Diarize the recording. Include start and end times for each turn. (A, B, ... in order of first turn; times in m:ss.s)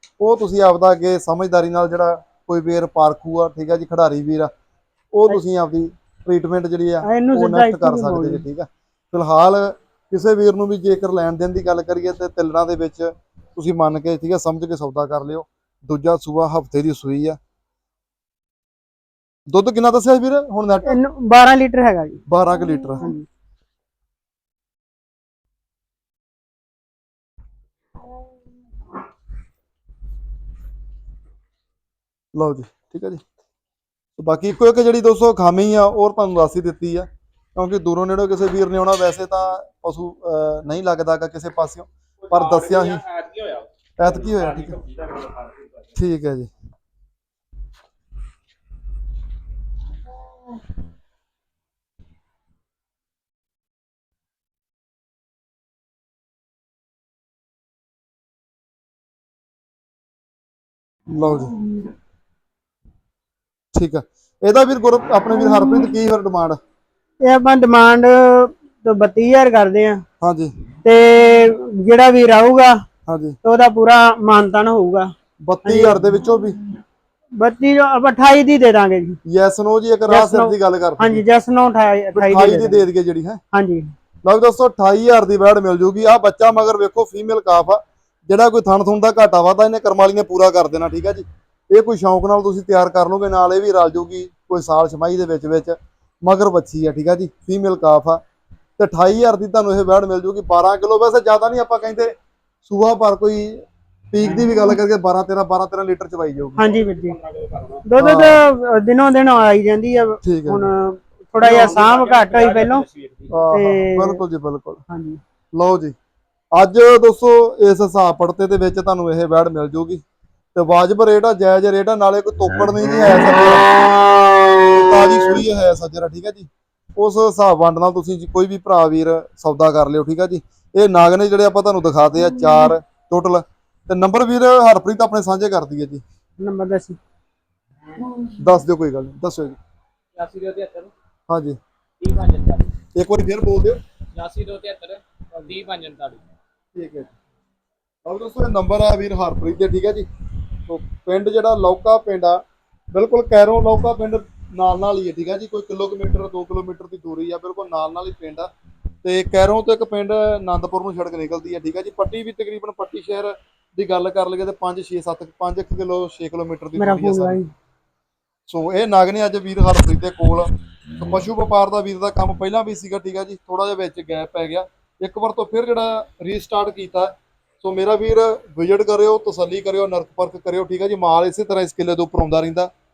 0:00.2-0:04.5 A
0:05.1-0:17.4 A
0:07.0-0:08.4 B
0:19.5-0:21.0 A
0:20.8-0:22.2 B
0:22.3-0:23.0 A
0:23.0-0:23.2 B
0:32.3-0:33.2 A
0:34.2-0:43.0 A
0:42.4-0:43.6 C
0:44.0-0:44.8 A
0:44.7-0:45.5 C
0:45.9-0:46.5 A
1:01.1-1:01.6 A
1:03.7-1:06.6 A
1:07.2-1:10.0 B
1:10.2-1:10.5 A
1:10.8-1:12.8 B
1:13.1-1:13.4 A
1:13.4-1:15.1 B
1:15.4-1:16.6 A
1:15.6-1:16.0 B
1:17.4-1:19.2 B
1:19.2-1:21.2 A
1:20.1-1:22.8 B
1:22.1-1:23.4 A
1:23.5-1:23.9 B
1:24.2-1:38.2 A
1:38.8-1:42.1 A
1:42.6-1:46.6 A
1:46.6-1:47.2 B
1:47.8-1:52.8 B
1:48.0-1:48.4 A
1:50.2-1:50.7 A
1:51.6-1:53.3 C
1:53.3-1:54.8 A
1:53.5-1:54.2 B
1:54.9-1:55.2 B
1:55.6-1:55.9 A
1:56.5-2:00.0 A
2:00.5-2:03.8 A
2:04.6-2:16.0 A
2:16.4-2:17.0 B
2:18.3-2:19.6 A
2:20.2-2:20.9 C
2:21.3-2:21.6 A
2:22.0-2:22.7 C
2:22.9-2:23.8 A
2:24.1-2:26.2 C
2:26.8-2:27.1 A
2:28.0-2:30.1 A
2:30.7-2:32.4 A
2:32.9-2:38.5 A
2:39.0-2:47.4 A
2:46.8-2:47.5 B
2:48.5-3:02.7 A